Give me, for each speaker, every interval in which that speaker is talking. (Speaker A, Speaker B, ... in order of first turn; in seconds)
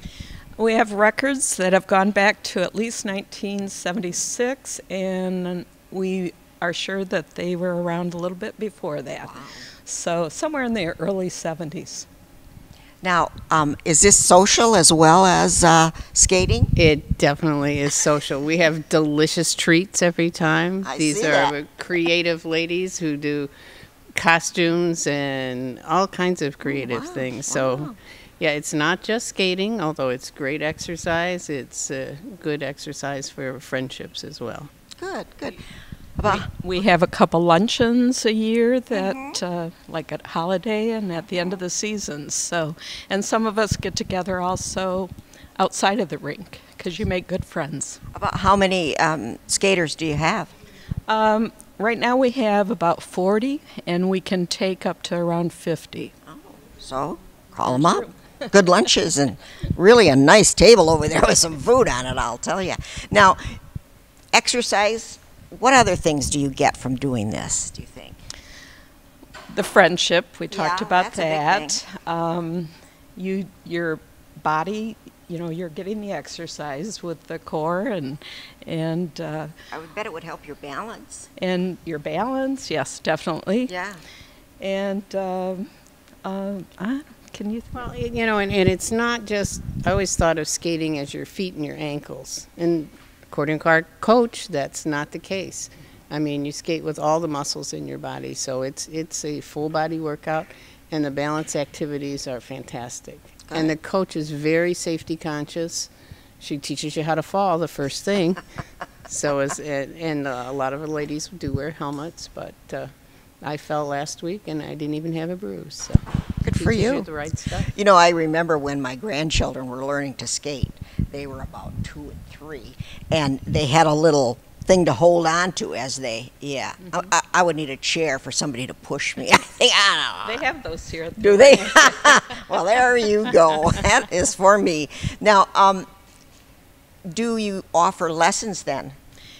Speaker A: 0.6-12.1, 36.2-48.0, 51.1-56.1, 57.6-58.5, 69.5-79.5, 81.4-83.7, 84.6-85.7, 86.2-87.8, 130.2-132.4
Speaker B: 9.2-9.7, 13.0-16.7, 20.8-21.6, 26.6-27.9, 35.0-35.6, 36.2-36.5, 38.9-39.4, 48.1-50.5, 56.3-63.6, 64.3-68.2, 70.5-71.8, 79.7-81.3, 83.7-84.0, 116.4-117.1, 117.6-130.4, 131.2-135.9, 137.1-139.0
Speaker C: 16.8-23.5, 24.1-34.7, 87.7-108.4, 109.1-117.7